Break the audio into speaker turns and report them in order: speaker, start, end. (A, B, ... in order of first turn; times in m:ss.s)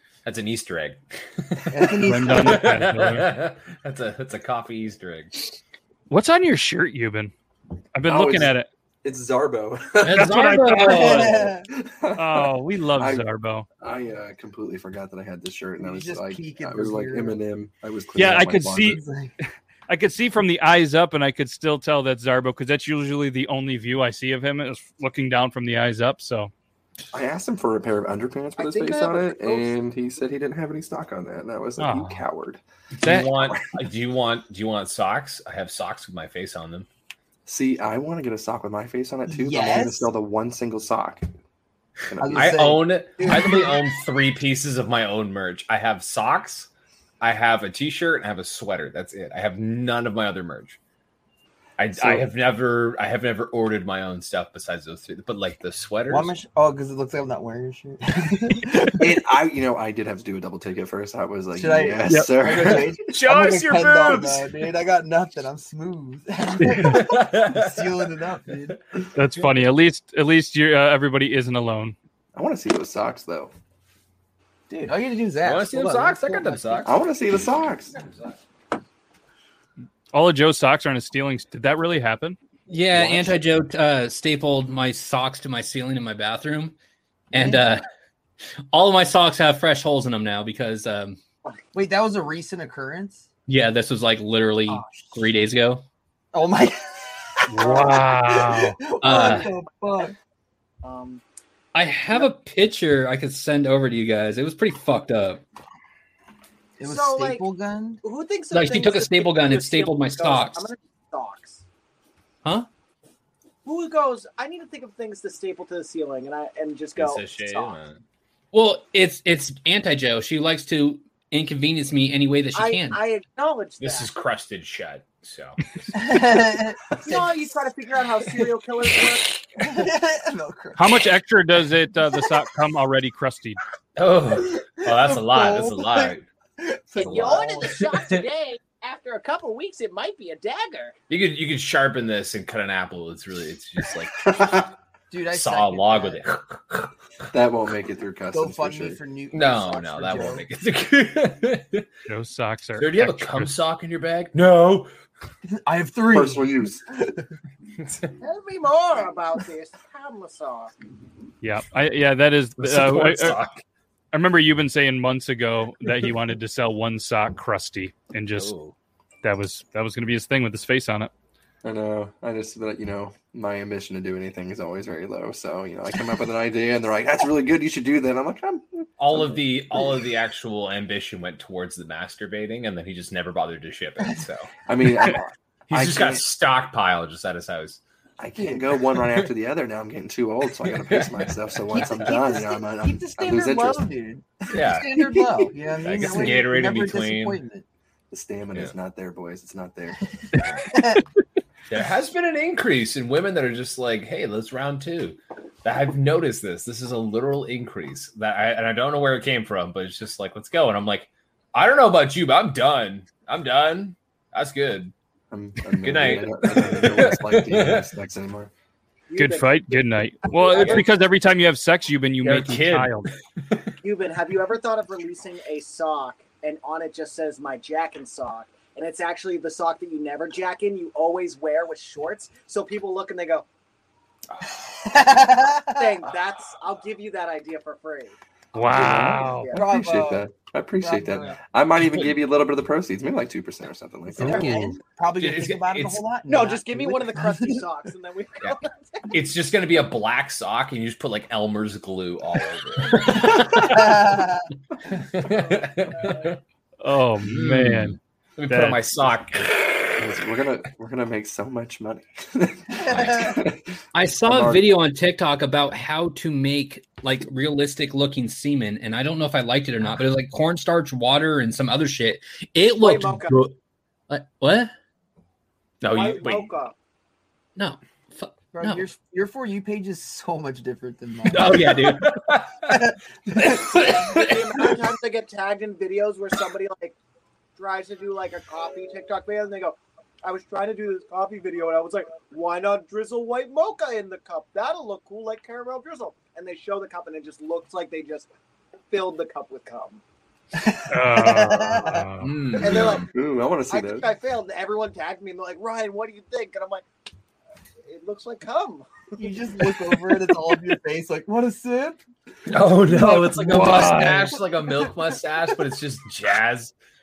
0:00.2-0:05.4 A
0:01.7-0:02.7 B
0:02.1-0:03.3 C
0:06.1-0:07.3 C
0:08.0-0:08.7 C
0:08.1-0:10.4 D
0:10.0-0:11.4 C
0:10.1-0:11.5 E
0:10.8-0:11.7 B
0:11.7-0:13.3 D
0:12.2-0:13.7 C
0:13.8-0:19.0 D
0:15.8-0:17.4 B
0:18.2-0:19.0 C
0:18.9-0:19.3 B
0:19.9-0:26.5 C
0:27.1-0:33.7 D
0:28.6-0:29.8 F
0:31.8-0:32.2 C
0:33.0-0:36.9 A
0:37.5-0:41.3 D
0:39.3-0:40.1 B
0:42.1-0:42.6 D
0:42.2-0:43.7 B
0:42.3-0:46.7 A
0:47.2-0:50.8 A
0:51.8-0:56.3 A
0:56.1-0:59.1 B
0:58.9-1:03.1 D
1:01.6-1:08.8 B
1:03.2-1:04.4 A
1:06.6-1:07.0 C
1:06.8-1:08.0 A
1:09.2-1:12.0 C
1:12.4-1:13.5 D
1:14.7-1:16.9 B
1:15.4-1:17.0 A
1:16.8-1:18.0 D
1:20.1-1:22.4 C
1:22.7-1:26.8 E
1:22.9-1:23.4 B
1:27.3-1:27.8 E
1:27.4-1:27.7 B
1:28.7-1:31.2 E
1:31.7-1:33.3 B
1:33.5-1:35.8 E
1:34.7-1:35.0 B
1:36.3-1:40.2 B
1:37.5-1:38.8 C
1:37.6-1:37.9 F
1:39.0-1:39.5 E
1:39.1-1:39.5 F
1:40.8-1:41.2 F
1:41.7-1:45.4 E
1:46.8-1:48.0 B
1:46.8-1:47.4 F
1:48.0-1:51.6 F
1:48.5-1:50.7 E
1:53.6-1:57.8 F
1:57.0-1:58.0 A
1:58.5-2:03.0 E
2:02.5-2:04.1 F
2:03.8-2:05.6 A
2:05.9-2:07.5 B
2:07.0-2:09.4 F
2:09.6-2:11.0 B
2:10.8-2:13.6 C
2:14.0-2:16.2 A
2:14.6-2:17.8 B
2:17.0-2:21.0 F
2:17.0-2:17.9 A
2:21.1-2:24.6 A
2:25.1-2:26.2 B
2:25.3-2:26.9 A
2:27.3-2:29.0 D
2:28.3-2:30.4 B
2:29.3-2:31.9 A
2:32.1-2:33.5 C
2:32.8-2:34.9 A
2:35.5-2:37.2 B
2:36.1-2:36.8 D
2:37.8-2:38.1 A
2:38.2-2:40.7 F
2:41.4-2:43.4 C
2:42.6-2:43.6 A
2:44.1-2:48.5 C
2:48.4-2:48.8 A
2:49.2-2:51.1 C
2:51.6-2:59.4 D
2:59.0-3:04.5 A
3:04.7-3:06.2 D
3:05.7-3:07.8 A
3:08.2-3:13.9 D
3:08.4-3:08.6 B
3:10.7-3:12.1 A
3:11.7-3:17.6 B
3:14.5-3:15.2 A
3:15.8-3:17.4 A
3:18.1-3:20.0 D
3:20.4-3:20.7 A
3:20.7-3:21.0 B
3:21.7-3:34.9 A
3:35.3-3:38.5 D
3:35.8-3:37.8 A
3:39.1-3:40.9 F
3:39.2-3:43.1 C
3:40.5-3:40.8 A
3:42.2-3:43.6 A
3:43.8-3:53.5 F
3:54.8-3:56.0 B
3:55.8-3:59.6 F
3:58.5-3:59.5 C
3:59.5-4:00.3 B
3:59.6-4:04.6 D
4:00.8-4:01.4 B
4:04.1-4:07.6 B
4:04.2-4:04.8 C
4:05.2-4:06.0 A
4:06.3-4:09.1 F
4:09.1-4:14.2 A
4:13.4-4:14.4 B
4:14.9-4:16.4 A
4:15.5-4:16.2 F
4:16.8-4:18.0 C
4:17.3-4:19.6 A
4:18.5-4:18.8 C
4:20.0-4:23.6 D
4:22.9-4:23.4 B
4:22.9-4:23.3 A
4:23.9-4:33.6 E
4:24.2-4:24.7 D
4:32.7-4:33.4 F
4:34.1-4:34.7 E
4:35.8-4:36.5 A
4:35.9-4:36.7 F
4:37.6-4:38.9 E
4:38.5-4:42.0 B
4:41.3-4:42.2 E
4:42.1-4:42.7 A
4:42.7-4:44.4 B
4:43.5-4:44.3 E
4:43.9-4:47.0 F
4:47.6-4:58.3 F
4:58.9-5:00.0 F
5:00.6-5:02.1 B
5:00.9-5:02.3 C
5:02.2-5:03.1 A
5:02.6-5:03.1 F
5:02.9-5:04.1 D
5:03.7-5:06.9 F
5:07.9-5:09.3 F
5:09.2-5:12.0 B
5:12.5-5:16.7 A
5:13.0-5:14.2 B
5:13.0-5:14.3 C